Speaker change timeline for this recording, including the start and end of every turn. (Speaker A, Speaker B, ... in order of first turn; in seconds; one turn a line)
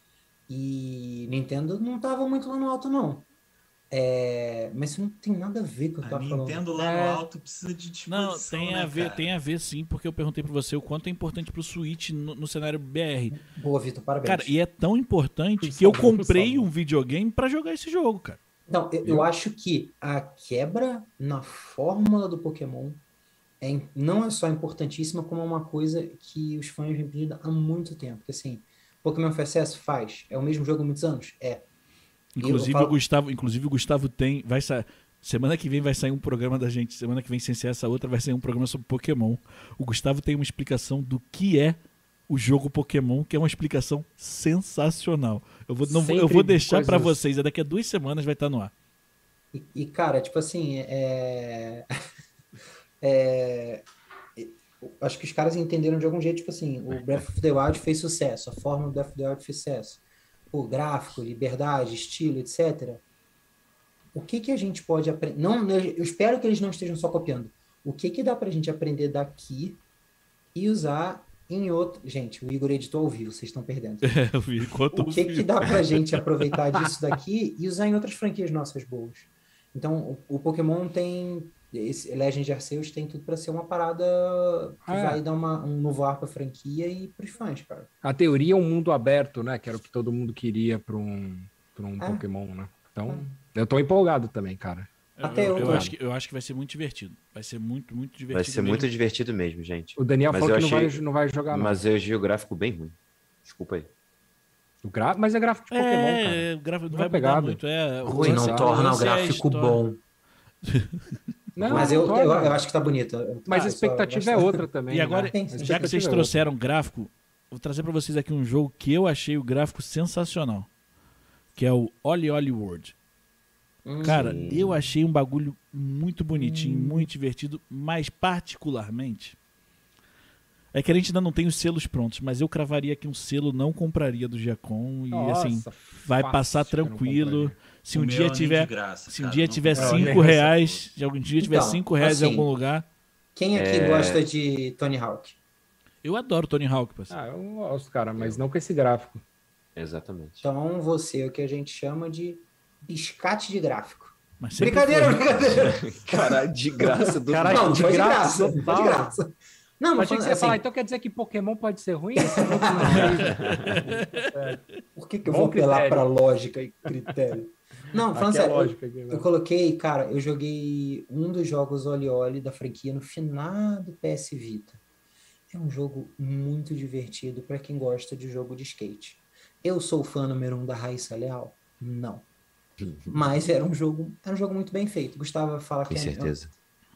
Speaker A: 0.5-3.3
Speaker A: 3.9-6.6
Speaker B: 6.0-9.3
Speaker C: 6.7-7.2
Speaker D: 8.1-13.3
Speaker A: 13.3-14.6
Speaker D: 14.2-18.4
Speaker C: 15.6-16.7
Speaker A: 18.7-23.0
Speaker A: 23.6-31.6
Speaker D: 32.4-48.7
Speaker A: 32.4-33.0
Speaker C: 45.8-47.2
Speaker A: 49.5-51.9
Speaker A: 53.0-53.8
Speaker A: 54.4-60.0
Speaker A: 60.5-63.0
Speaker A: 64.1-69.8
Speaker A: 70.5-74.2
Speaker D: 74.0-76.1
Speaker A: 74.9-87.9
Speaker C: 84.8-85.2
Speaker C: 88.0-94.9
Speaker A: 92.0-92.3
Speaker A: 93.1-93.4
Speaker D: 95.2-98.9
Speaker A: 95.2-95.9
Speaker C: 95.4-95.9
Speaker E: 98.3-103.9
Speaker C: 100.0-101.8
Speaker C: 104.8-108.8
Speaker D: 105.7-109.8
Speaker A: 108.0-110.0
Speaker D: 110.6-111.0
Speaker C: 111.5-112.6
Speaker A: 111.6-114.7
Speaker D: 111.7-112.0
Speaker C: 113.5-116.5
Speaker D: 114.9-120.7
Speaker A: 115.3-115.8
Speaker D: 121.5-122.9
Speaker A: 123.8-124.5
Speaker D: 124.0-129.3
Speaker E: 124.0-124.8
Speaker A: 126.3-127.1
Speaker D: 130.7-142.8
Speaker C: 135.1-137.6
Speaker B: 137.9-140.9
Speaker C: 139.7-140.4
Speaker A: 141.4-142.5
Speaker A: 143.3-145.3
Speaker E: 143.5-144.2
Speaker D: 146.0-147.2
Speaker C: 147.1-149.2
Speaker E: 148.2-148.4
Speaker E: 149.8-150.4
Speaker A: 150.4-160.6
Speaker D: 154.4-155.5
Speaker E: 155.5-158.2
Speaker C: 157.3-159.1
Speaker C: 160.0-164.6
Speaker A: 162.2-163.3
Speaker D: 163.0-164.3
Speaker E: 163.3-163.8
Speaker A: 164.9-174.8
Speaker C: 165.2-166.1
Speaker C: 168.1-169.3
Speaker A: 175.5-182.2
Speaker A: 183.1-186.3
Speaker E: 185.9-186.5